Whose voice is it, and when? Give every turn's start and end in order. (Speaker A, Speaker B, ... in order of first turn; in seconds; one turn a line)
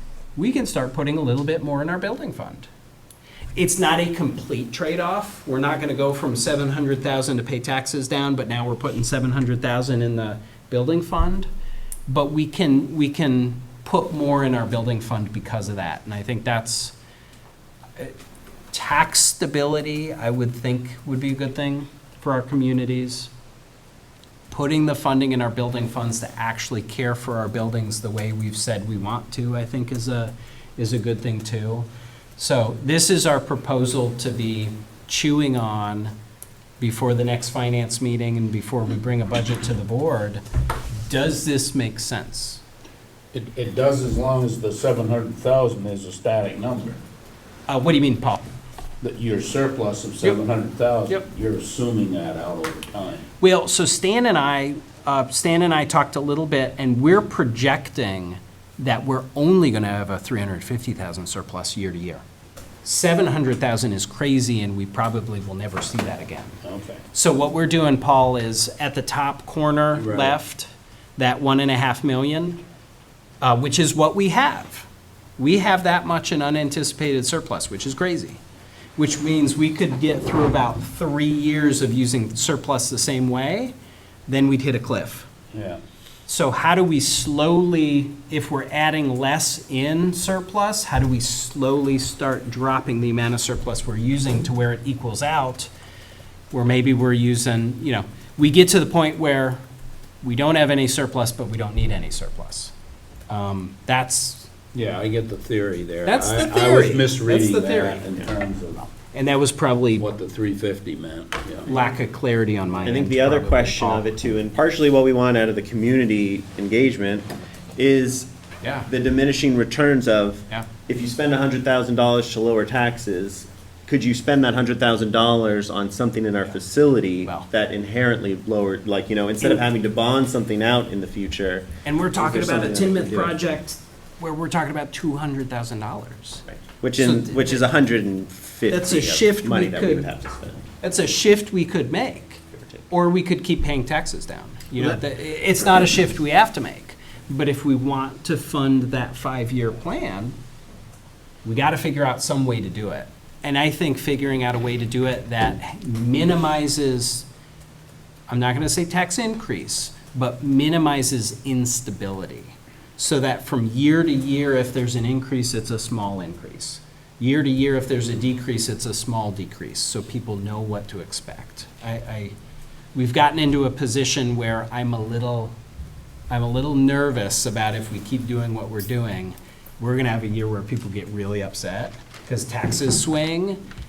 Speaker A: 0.4-2.7
Speaker A: 3.5-11.5
Speaker A: 12.1-16.9
Speaker A: 18.7-23.3
Speaker A: 24.5-36.1
Speaker A: 36.8-40.4
Speaker A: 41.0-42.6
Speaker B: 43.3-47.0
Speaker A: 47.7-48.4
Speaker B: 49.0-53.3
Speaker A: 53.4-62.2
Speaker A: 62.8-66.6
Speaker B: 66.6-67.0
Speaker A: 67.1-72.6
Speaker B: 70.0-70.3
Speaker A: 73.4-78.4
Speaker A: 79.0-83.7
Speaker A: 84.3-85.3
Speaker B: 85.5-85.8
Speaker A: 86.3-95.7
Speaker A: 96.5-99.6
Speaker A: 100.2-102.7
Speaker A: 103.3-104.5
Speaker B: 104.7-108.9
Speaker A: 106.0-108.1
Speaker A: 109.1-110.1
Speaker B: 110.0-111.7
Speaker A: 111.7-114.1
Speaker C: 112.8-118.3
Speaker A: 118.6-118.9
Speaker C: 118.8-133.4
Speaker A: 131.8-136.4
Speaker C: 136.5-140.6
Speaker A: 137.0-137.6
Speaker A: 138.7-140.1
Speaker A: 140.8-150.4
Speaker A: 151.4-157.3
Speaker A: 158.3-172.3
Speaker A: 172.9-175.5
Speaker A: 176.3-183.6